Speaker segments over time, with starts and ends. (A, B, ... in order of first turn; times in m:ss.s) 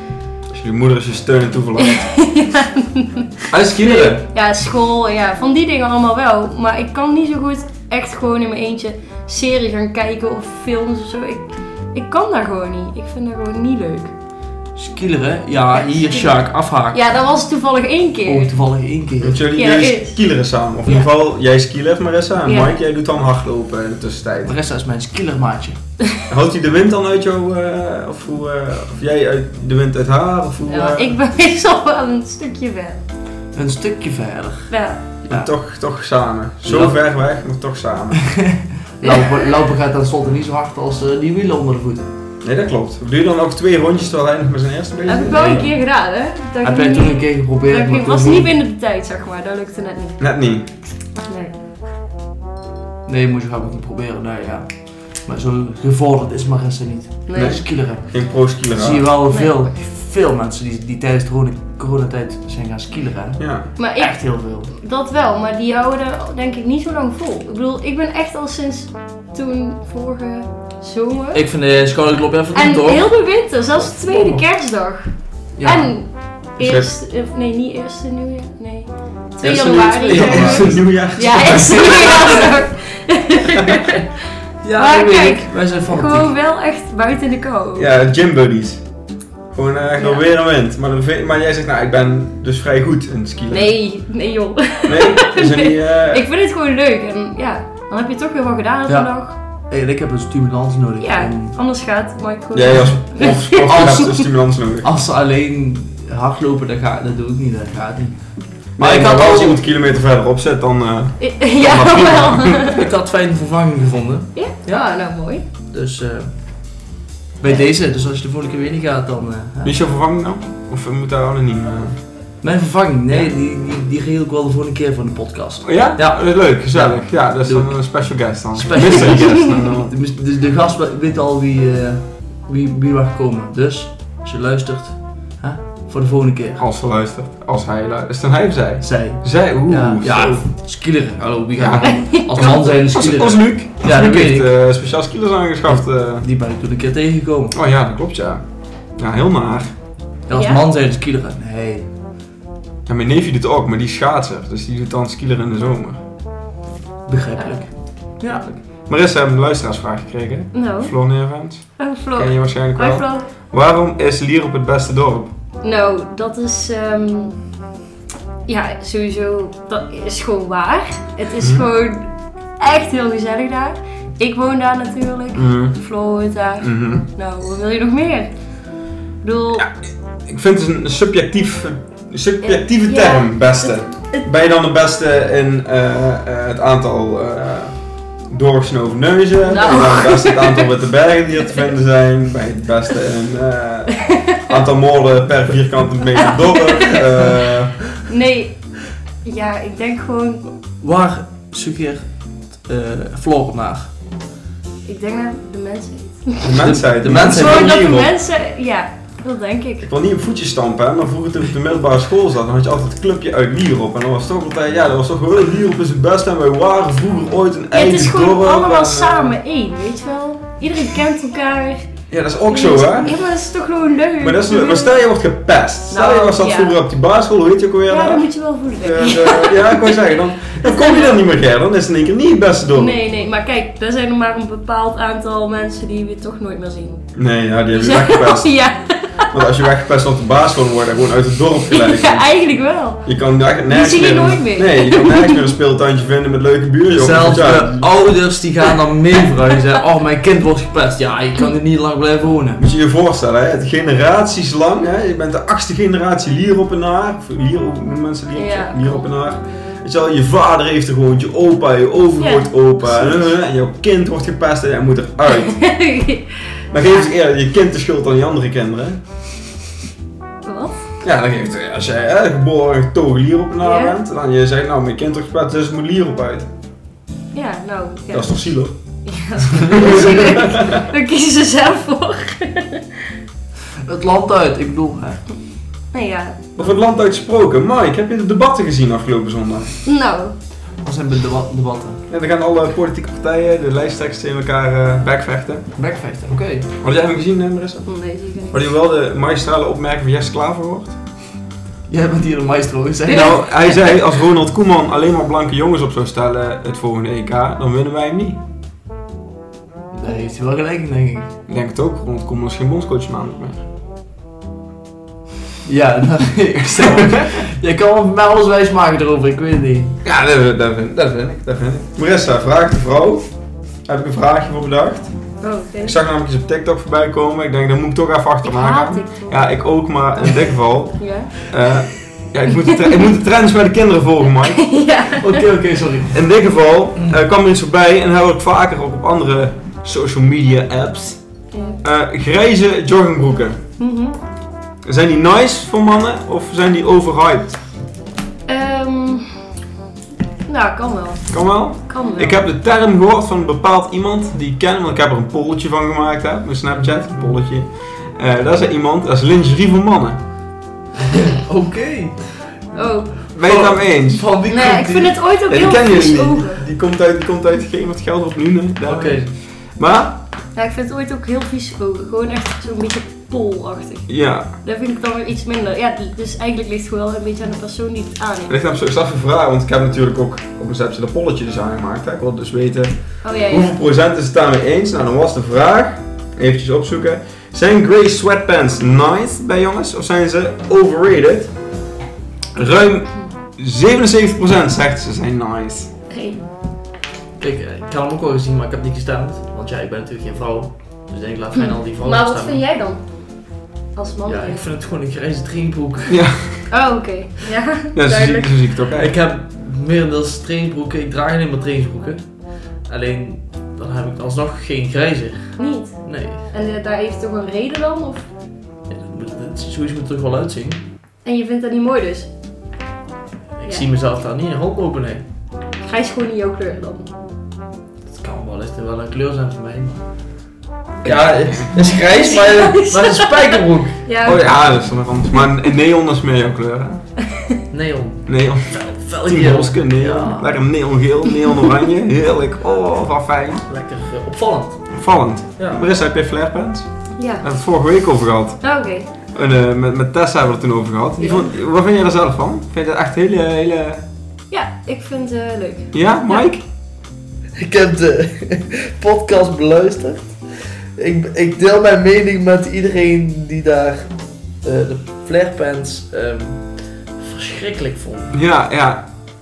0:00.5-0:02.1 A
0:01.8-0:14.1 B
0:03.5-0:04.2 A
0:14.7-0:17.0 C
0:15.7-0:18.5 B
0:18.2-0:19.4 C
0:19.2-0:24.5 A
0:19.5-0:20.2 B
0:22.4-0:22.7 B
0:24.4-0:25.8 C
0:26.3-0:31.2 A
0:30.6-0:33.0 B
0:33.5-0:34.7 C
0:34.7-0:35.0 B
0:35.3-0:38.5 A
0:36.6-0:37.0 C
0:38.3-0:42.1 C
0:39.0-0:39.5 B
0:42.4-0:45.7 A
0:45.0-0:50.2 B
0:46.6-0:48.5 C
0:50.2-0:50.6 A
0:51.1-0:51.6 B
0:53.0-1:04.7 C
0:57.3-0:57.6 B
0:57.3-0:59.1 A
0:59.3-0:59.6 B
1:03.4-1:03.7 A
1:03.8-1:11.4 B
1:11.3-1:14.4 C
1:12.5-1:24.1 B
1:15.6-1:16.0 C
1:16.6-1:16.9 A
1:19.4-1:20.8 C
1:19.4-1:22.5 A
1:22.0-1:22.4 C
1:23.5-1:23.8 A
1:24.6-1:26.3 C
1:24.8-1:27.9 B
1:27.7-1:28.8 A
1:29.5-1:33.7 A
1:30.0-1:30.2 B
1:33.5-1:39.3 B
1:34.8-1:36.2 A
1:38.9-1:41.5 C
1:41.0-1:44.3 B
1:42.5-1:44.9 A
1:43.6-1:44.2 C
1:44.8-1:49.6 C
1:48.8-1:52.8 A
1:51.2-1:52.9 B
1:52.7-1:54.8 C
1:54.3-1:55.4 B
1:55.6-1:56.8 C
1:57.4-1:59.8 C
1:59.6-2:02.0 A
2:02.4-2:16.6 C
2:05.6-2:09.9 A
2:16.6-2:20.4 A
2:18.8-2:24.5 C
2:21.6-2:26.2 A
2:21.9-2:22.5 B
2:25.7-2:27.6 C
2:27.5-2:29.7 A
2:30.3-2:31.9 C
2:30.3-2:30.6 B
2:32.8-2:36.0 A
2:37.0-2:38.6 C
2:37.4-2:37.8 B
2:38.8-2:45.3 A
2:40.5-2:43.3 B
2:45.6-2:47.5 B
2:48.4-2:58.3 B
2:51.4-2:51.6 A
2:55.3-2:55.7 A
2:56.6-2:57.0 A
2:59.2-2:59.7 B
3:00.2-3:17.9 A
3:02.4-3:04.3 B
3:09.4-3:10.7 B
3:16.2-3:17.0 B
3:18.0-3:20.4 B
3:20.8-3:23.9 C
3:24.8-3:26.6 B
3:26.4-3:28.1 A
3:26.4-3:27.8 C
3:27.1-3:29.9 B
3:29.8-3:39.4 A
3:37.7-3:45.0 B
3:42.1-3:43.2 A
3:44.2-3:53.0 A
3:45.9-3:46.8 B
3:47.9-3:51.2 B
3:52.7-3:57.1 B
3:57.2-3:58.5 A
3:57.7-3:59.5 B
3:59.3-4:02.3 A
4:01.7-4:05.6 B
4:03.0-4:07.9 A
4:06.9-4:12.6 C
4:12.6-4:25.7 A
4:18.3-4:19.7 B
4:22.2-4:23.3 B
4:25.3-4:27.1 B
4:26.7-4:29.0 A
4:30.4-4:30.8 B
4:31.0-4:36.5 A
4:33.6-4:34.0 B
4:37.3-4:43.0 B
4:38.1-4:40.9 A
4:43.8-4:45.2 C
4:45.9-4:46.5 B
4:46.6-4:49.8 A
4:49.8-4:50.3 B
4:50.8-4:52.0 C
4:52.1-4:55.8 A
4:55.8-4:56.7 C
4:56.8-5:01.0 A
4:57.8-4:58.7 B
5:01.9-5:03.4 C
5:03.1-5:08.4 A
5:03.1-5:04.0 B
5:09.9-5:11.4 C
5:11.5-5:13.6 A
5:15.6-5:20.0 C
5:16.8-5:17.2 A
5:20.0-5:23.3 A
5:23.8-5:25.1 A
5:25.4-5:26.0 B
5:25.8-5:34.7 A
5:28.4-5:29.6 B
5:31.0-5:31.4 B
5:32.5-5:33.0 B
5:34.4-5:35.4 B
5:35.2-5:36.2 C
5:36.1-5:41.2 A
5:41.5-5:41.8 B
5:41.8-5:43.6 A
5:43.8-5:44.2 B
5:44.8-5:47.6 A
5:48.5-5:49.3 B
5:50.4-5:52.4 B
5:51.3-6:00.2 A
5:56.8-5:57.3 C
6:01.0-6:02.6 C
6:02.7-6:03.3 B
6:03.3-6:05.2 C
6:03.3-6:04.3 A
6:04.5-6:06.6 B
6:05.5-6:10.2 A
6:08.8-6:09.3 C
6:10.5-6:18.5 B
6:14.1-6:14.5 A
6:18.5-6:31.5 A
6:23.2-6:23.8 B
6:32.5-6:35.9 A
6:36.1-6:36.4 B
6:37.4-6:42.6 C
6:41.6-6:44.6 B
6:44.2-6:46.2 C
6:46.1-6:46.7 A
6:46.7-6:48.7 B
6:47.9-6:49.1 A
6:48.9-6:56.4 C
6:55.6-6:58.2 B
6:58.9-7:00.8 C
7:01.2-7:02.3 B
7:03.6-7:05.2 C
7:05.8-7:07.1 B
7:08.1-7:10.0 C
7:11.0-7:11.7 A
7:11.0-7:14.0 C
7:11.7-7:14.4 B
7:14.2-7:17.0 A
7:17.7-7:20.5 C
7:18.3-7:23.6 A
7:23.6-7:25.0 C
7:24.9-7:34.0 A
7:25.6-7:25.8 C
7:27.2-7:27.4 B
7:28.6-7:29.3 B
7:31.2-7:31.5 B
7:34.5-7:36.4 B
7:35.9-7:36.6 A
7:37.6-7:48.4 C
7:48.3-7:49.0 A